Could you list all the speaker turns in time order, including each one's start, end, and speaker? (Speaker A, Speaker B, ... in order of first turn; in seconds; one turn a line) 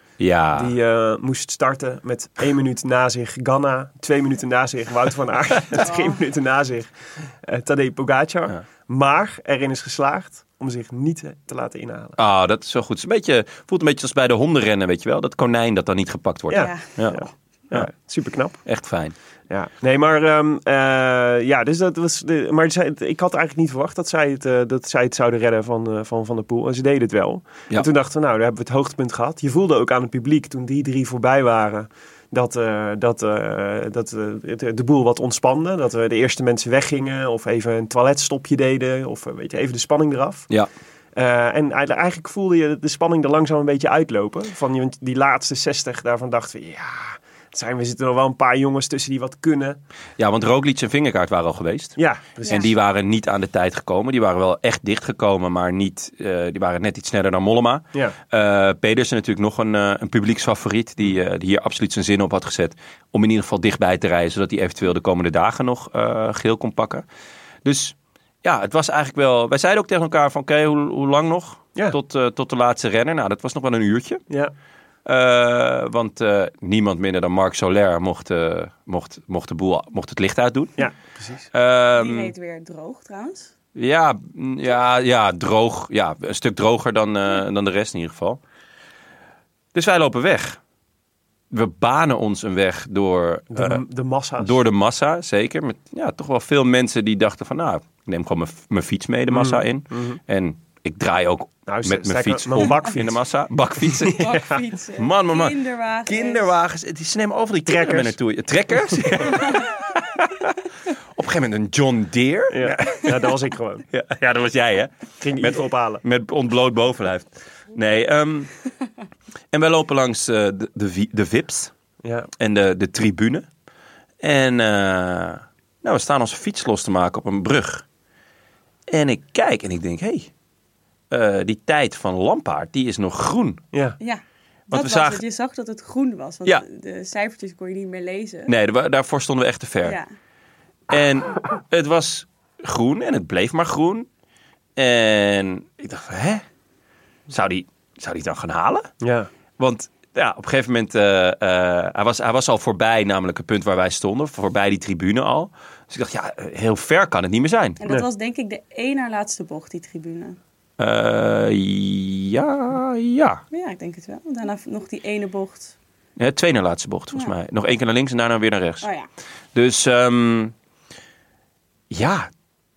Speaker A: 0.2-0.7
Speaker B: 0.5-12.2
Speaker C: 5.8-6.2
Speaker A: 12.2-17.9
Speaker B: 16.5-18.6
Speaker C: 16.5-17.3
Speaker A: 18.6-19.1
Speaker B: 19.5-40.5
Speaker B: 41.1-49.8
Speaker A: 50.2-67.0
Speaker B: 52.0-52.7
Speaker A: 67.6-74.2
Speaker A: 75.0-80.8
Speaker B: 80.8-81.5
Speaker A: 81.5-82.3
Speaker C: 82.0-83.5
Speaker A: 83.7-88.4
Speaker A: 89.7-90.6
Speaker A: 91.5-93.8
Speaker B: 93.5-94.6
Speaker A: 94.4-104.3
Speaker B: 99.3-100.2
Speaker B: 101.7-103.1
Speaker B: 103.8-104.3
Speaker C: 104.0-106.5
Speaker A: 105.0-110.5
Speaker B: 107.7-108.2
Speaker A: 111.2-113.3
Speaker B: 112.5-113.8
Speaker A: 113.9-118.5
Speaker B: 115.2-116.0
Speaker A: 119.5-121.7
Speaker B: 122.0-122.3
Speaker A: 122.4-123.5
Speaker A: 124.2-127.8
Speaker A: 128.9-130.3
Speaker A: 131.1-133.6
Speaker B: 133.7-134.0
Speaker C: 134.0-138.5
Speaker A: 134.7-135.2
Speaker A: 138.5-140.0
Speaker A: 140.9-144.1
Speaker A: 144.8-146.4
Speaker A: 147.3-148.9
Speaker B: 149.0-149.3
Speaker A: 149.6-157.8
Speaker C: 157.8-160.4
Speaker A: 160.8-163.4
Speaker C: 163.5-165.8
Speaker A: 166.2-168.9
Speaker C: 168.8-169.1
Speaker A: 169.5-170.5
Speaker A: 171.9-172.3